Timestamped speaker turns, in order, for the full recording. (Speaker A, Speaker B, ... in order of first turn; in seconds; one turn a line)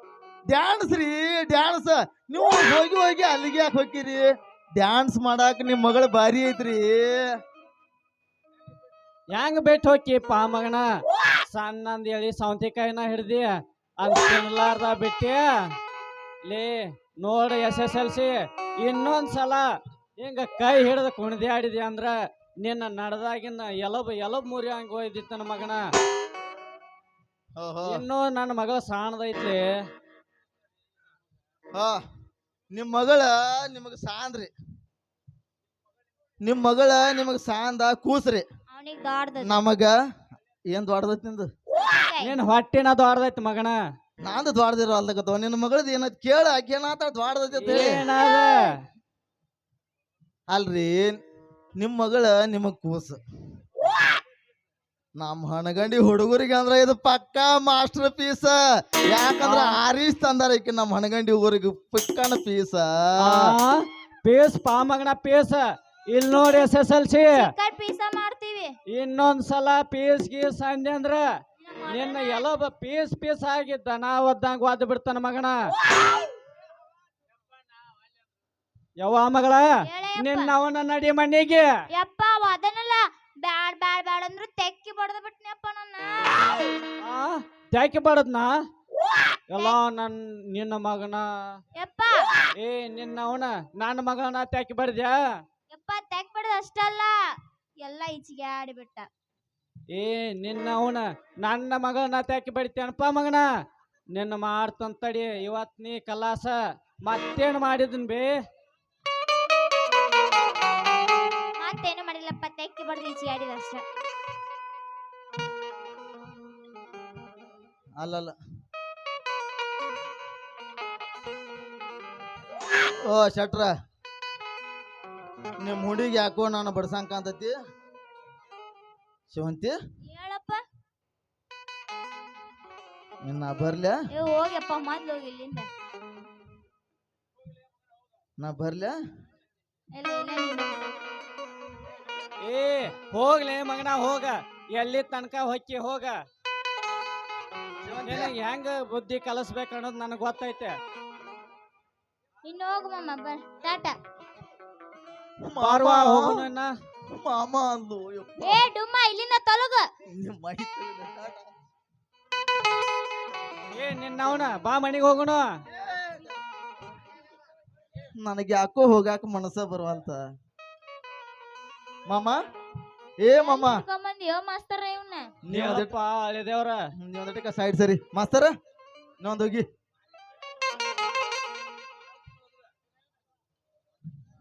Speaker A: 0.5-7.2
Speaker B: 9.3-10.9
Speaker B: 11.5-15.5
Speaker B: 16.5-19.7
Speaker B: 20.2-25.8
Speaker A: 27.6-28.1
Speaker B: 27.9-29.7
Speaker A: 32.7-34.5
Speaker A: 36.4-38.5
Speaker C: 38.7-39.6
Speaker A: 39.4-39.9
Speaker A: 40.7-41.5
Speaker C: 41.8-42.4
Speaker B: 42.2-43.8
Speaker A: 44.2-48.0
Speaker B: 47.6-48.7
Speaker A: 50.5-51.2
Speaker A: 51.8-53.2
Speaker A: 55.2-63.5
Speaker B: 59.4-59.8
Speaker B: 63.2-67.5
Speaker C: 67.3-68.7
Speaker B: 68.9-71.2
Speaker C: 71.6-72.5
Speaker B: 71.9-75.6
Speaker B: 79.0-79.7
Speaker C: 79.8-80.5
Speaker B: 80.2-81.7
Speaker C: 81.9-86.7
Speaker B: 87.0-88.5
Speaker B: 89.5-91.5
Speaker C: 91.8-92.4
Speaker B: 92.6-95.2
Speaker C: 95.7-97.2
Speaker C: 97.8-99.1
Speaker B: 99.9-103.5
Speaker B: 104.1-108.3
Speaker C: 111.6-113.8
Speaker A: 118.0-118.3
Speaker A: 123.0-123.7
Speaker A: 125.6-127.6
Speaker A: 129.3-129.8
Speaker C: 130.1-130.6
Speaker A: 133.2-134.0
Speaker C: 134.1-135.7
Speaker A: 138.4-139.0
Speaker C: 139.9-140.8
Speaker B: 142.4-146.2
Speaker A: 147.8-148.3
Speaker B: 148.0-150.8
Speaker C: 152.4-154.0
Speaker A: 155.4-156.5
Speaker B: 155.6-156.7
Speaker A: 157.2-158.7
Speaker C: 158.4-159.9
Speaker A: 160.2-161.5
Speaker B: 163.8-165.4
Speaker A: 165.7-166.3
Speaker A: 168.2-170.2
Speaker A: 172.1-172.4
Speaker A: 173.2-173.8
Speaker C: 173.4-175.3
Speaker A: 175.5-175.9
Speaker B: 175.5-176.8
Speaker A: 177.0-178.5
Speaker A: 179.2-179.7